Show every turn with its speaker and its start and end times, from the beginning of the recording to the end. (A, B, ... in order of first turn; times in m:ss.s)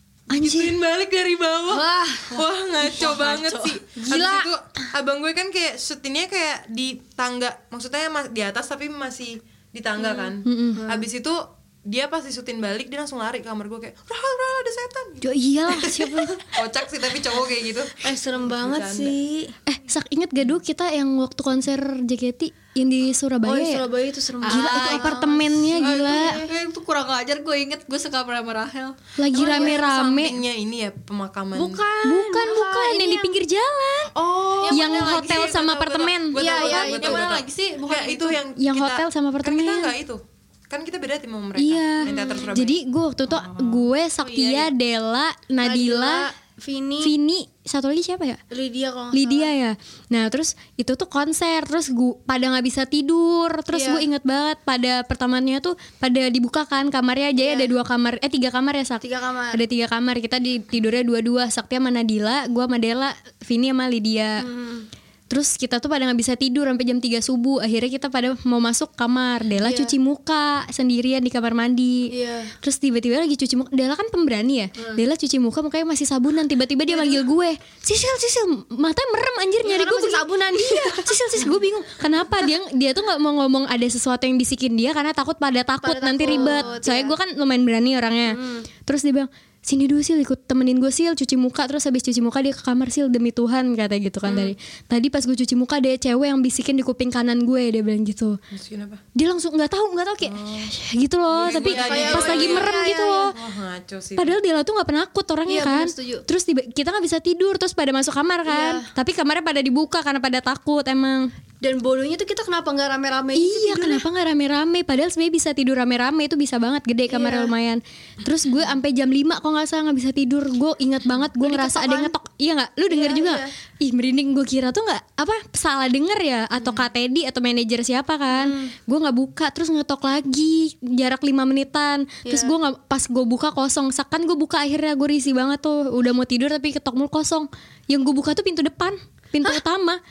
0:00.3-0:00.8 A
0:00.3-0:19.2 B
0:01.7-0:02.4 C
0:02.8-0:03.8 D
0:04.0-0:04.4 C
0:04.1-0:04.4 A
0:10.4-0:10.9 A
0:15.2-0:16.4 A
0:18.0-0:19.5 C
0:19.7-0:23.8 A
0:23.4-0:26.5 C
0:24.4-0:25.2 D
0:24.5-0:26.4 A
0:25.7-0:29.7 D
0:29.2-0:30.4 A
0:29.3-0:31.8 B
0:31.6-0:33.3 C
0:32.0-0:34.1 A
0:34.1-0:43.8 B
0:34.6-0:35.5 D
0:34.7-0:36.7 A
0:36.4-0:37.2 C
0:36.4-0:38.4 D
0:38.6-0:39.9 A
0:41.6-0:46.3 A
0:44.2-0:44.7 D
0:45.6-0:47.2 C
0:47.0-0:48.4 A
0:48.5-0:49.5 C
0:49.1-1:04.4 A
0:53.7-0:54.1 C
0:57.4-0:57.7 C
0:59.0-0:59.6 C
1:04.4-1:04.9 C
1:05.3-1:12.1 A
1:09.6-1:10.0 C
1:12.1-1:12.5 C
1:12.6-1:38.4 A
1:14.8-1:15.0 C
1:19.6-1:21.1 C
1:25.8-1:27.2 C
1:28.3-1:28.7 C
1:34.2-1:34.5 B
1:38.5-1:39.0 B
1:39.2-1:43.3 A
1:40.2-1:40.7 B
1:41.3-1:42.7 B
1:41.4-1:42.6 D
1:41.6-1:43.3 C
1:43.3-1:44.4 B
1:44.2-1:51.3 A
1:45.5-1:46.2 C
1:48.5-1:48.9 C
1:51.6-1:54.0 C
1:53.4-2:20.0 A
1:57.1-1:57.6 C
2:01.4-2:02.1 C
2:02.9-2:03.5 C
2:08.3-2:08.7 C
2:12.2-2:12.5 C